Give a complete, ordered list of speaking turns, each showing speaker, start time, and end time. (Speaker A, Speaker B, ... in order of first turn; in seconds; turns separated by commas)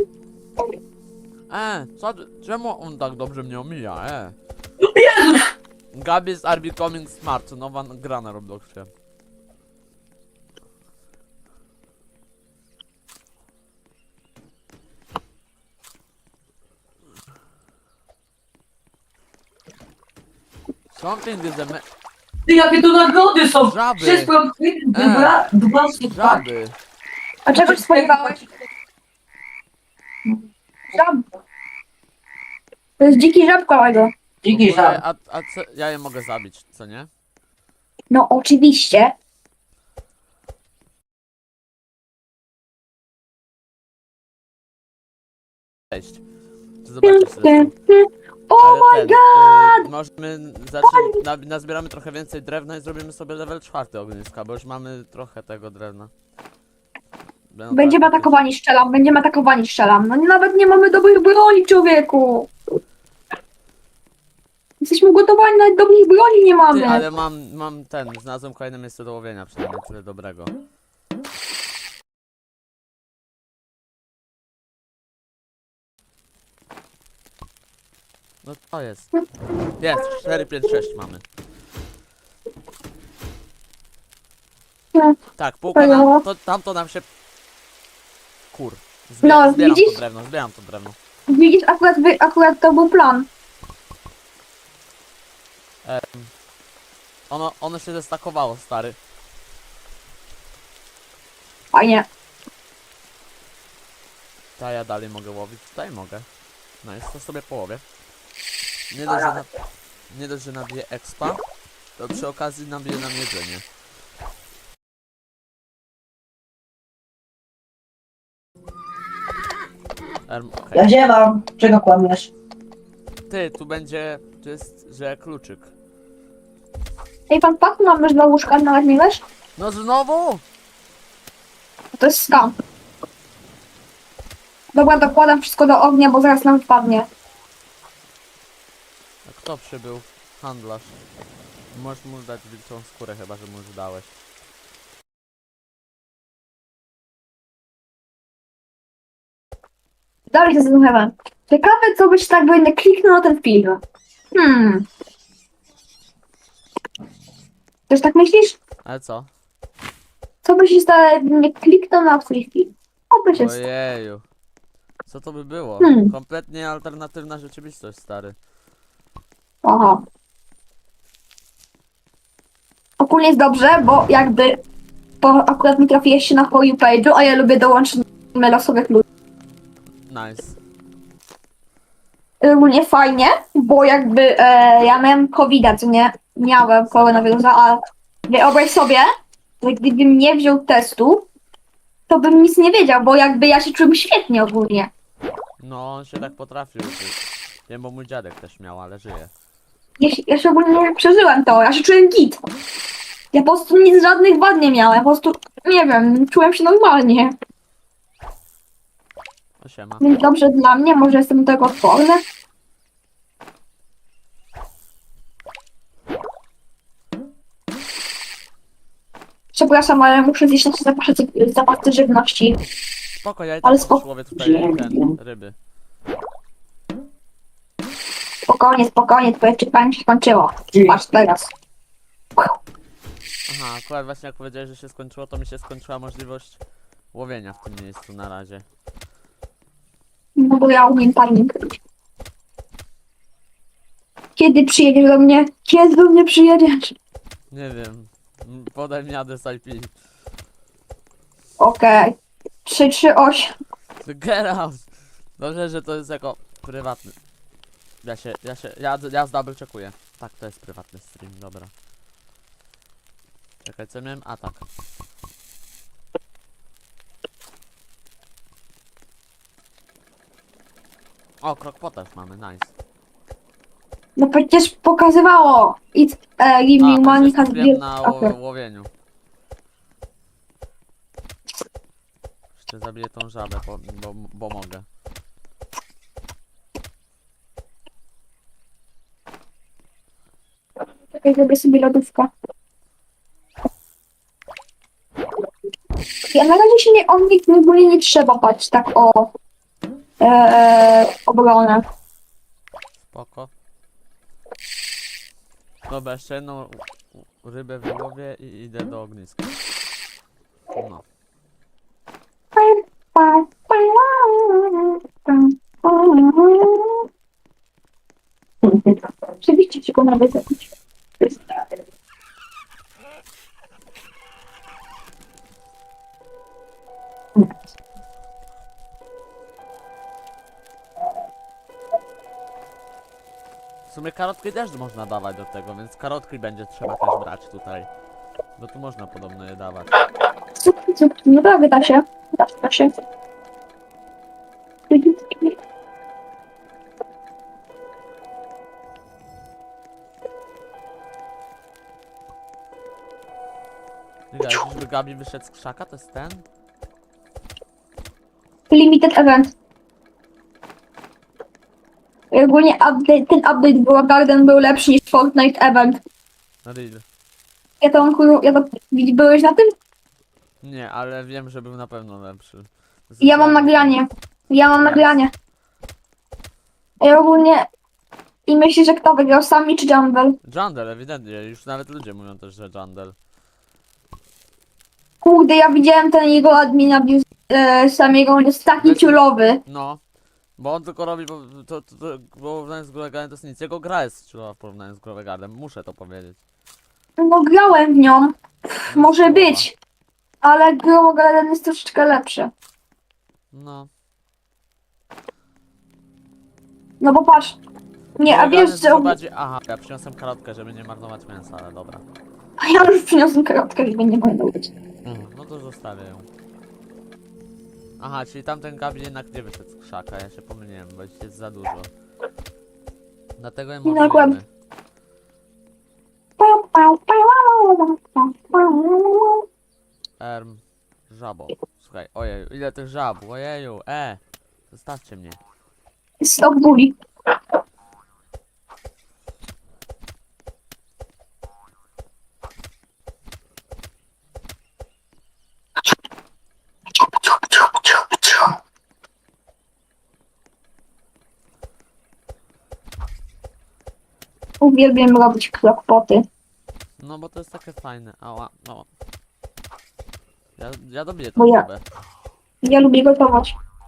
Speaker A: 1.5-4.3, Speaker B: 4.8-5.5, Speaker A: 5.9-8.9, Speaker A: 20.9-21.8, Speaker B: 22.5-26.4, Speaker A: 23.6-24.3, Speaker A: 24.9-25.4, Speaker A: 26.0-26.8, Speaker C: 27.4-28.4, Speaker B: 27.5-28.5, Speaker C: 30.9-31.2, Speaker C: 33.0-34.1, Speaker B: 34.4-35.0, Speaker A: 34.5-37.1, Speaker C: 38.1-39.1, Speaker A: 45.9-46.2, Speaker A: 46.8-47.7, Speaker C: 47.0-49.9, Speaker A: 48.6-56.1, Speaker C: 50.8-51.2, Speaker A: 57.5-58.4, Speaker C: 57.7-62.5, Speaker C: 64.8-67.0, Speaker A: 66.7-70.5, Speaker A: 78.4-79.1, Speaker A: 79.8-81.2, Speaker C: 84.9-85.2, Speaker A: 85.4-87.1, Speaker C: 85.7-86.2, Speaker A: 88.5-91.0, Speaker C: 89.2-90.0, Speaker C: 91.3-93.3, Speaker A: 95.8-96.3, Speaker A: 97.3-99.0, Speaker C: 101.7-102.1, Speaker A: 104.6-106.3, Speaker A: 106.8-107.8, Speaker A: 108.9-109.5, Speaker A: 110.1-111.4, Speaker A: 112.0-113.6, Speaker A: 120.3-120.9, Speaker B: 120.7-122.3, Speaker A: 123.3-125.7, Speaker C: 127.3-129.2, Speaker A: 129.6-130.4, Speaker C: 131.9-132.5, Speaker C: 134.7-137.1, Speaker A: 139.2-140.9, Speaker A: 141.7-144.1, Speaker C: 150.3-153.8, Speaker C: 154.3-154.8, Speaker C: 157.9-158.6, Speaker A: 158.8-159.3, Speaker C: 160.4-163.6, Speaker A: 163.3-164.2, Speaker A: 165.1-168.3, Speaker C: 165.8-166.1, Speaker C: 169.6-170.0, Speaker C: 173.0-174.6, Speaker C: 175.2-179.0, Speaker A: 180.1-180.6, Speaker C: 182.4-189.1, Speaker A: 186.9-187.3, Speaker C: 189.6-191.3, Speaker C: 192.1-194.9, Speaker A: 195.6-199.3, Speaker C: 200.0-202.4, Speaker C: 203.3-207.3, Speaker A: 209.6-210.1, Speaker C: 210.0-212.2, Speaker C: 219.5-222.6, Speaker A: 223.2-225.5, Speaker C: 223.6-224.0, Speaker B: 224.4-225.1, Speaker C: 228.5-231.5, Speaker B: 230.7-231.0, Speaker A: 233.5-236.6, Speaker A: 237.1-238.6, Speaker C: 240.3-241.8, Speaker C: 244.3-246.9, Speaker A: 247.5-249.9, Speaker C: 251.6-253.5, Speaker A: 254.0-254.8, Speaker A: 255.4-257.1, Speaker A: 258.0-261.7, Speaker A: 263.6-264.6, Speaker A: 271.4-272.7, Speaker C: 274.1-278.3, Speaker A: 276.8-278.9, Speaker A: 282.5-284.9, Speaker C: 291.1-292.3, Speaker C: 296.3-299.3, Speaker C: 300.2-301.9, Speaker A: 303.0-303.5, Speaker A: 305.9-309.5, Speaker A: 310.7-311.0, Speaker C: 312.6-317.1, Speaker C: 319.4-320.7, Speaker A: 333.9-337.9, Speaker A: 338.6-339.9, Speaker C: 340.6-342.9, Speaker C: 344.9-345.6, Speaker A: 354.3-356.4, Speaker C: 358.7-359.5, Speaker C: 362.3-366.0, Speaker A: 366.6-367.0, Speaker C: 367.8-369.7, Speaker A: 370.6-374.0, Speaker C: 373.2-375.3, Speaker A: 374.8-375.2, Speaker C: 377.0-377.7, Speaker C: 378.4-380.4, Speaker A: 380.4-383.1, Speaker C: 385.2-389.6, Speaker A: 388.8-390.0, Speaker A: 390.6-396.4, Speaker C: 397.2-399.7, Speaker A: 398.9-399.7, Speaker C: 400.4-402.5, Speaker A: 403.5-403.9, Speaker C: 407.0-407.6, Speaker C: 408.2-409.1, Speaker A: 408.2-412.0, Speaker C: 412.6-414.7, Speaker A: 415.0-416.3, Speaker A: 418.0-421.9, Speaker A: 423.4-424.4, Speaker C: 423.8-424.4, Speaker C: 426.4-429.4, Speaker A: 430.2-435.4, Speaker C: 436.2-437.0, Speaker C: 447.0-448.6, Speaker C: 454.6-456.2, Speaker A: 457.0-458.9, Speaker A: 460.6-461.8, Speaker C: 461.4-461.6, Speaker C: 462.6-463.5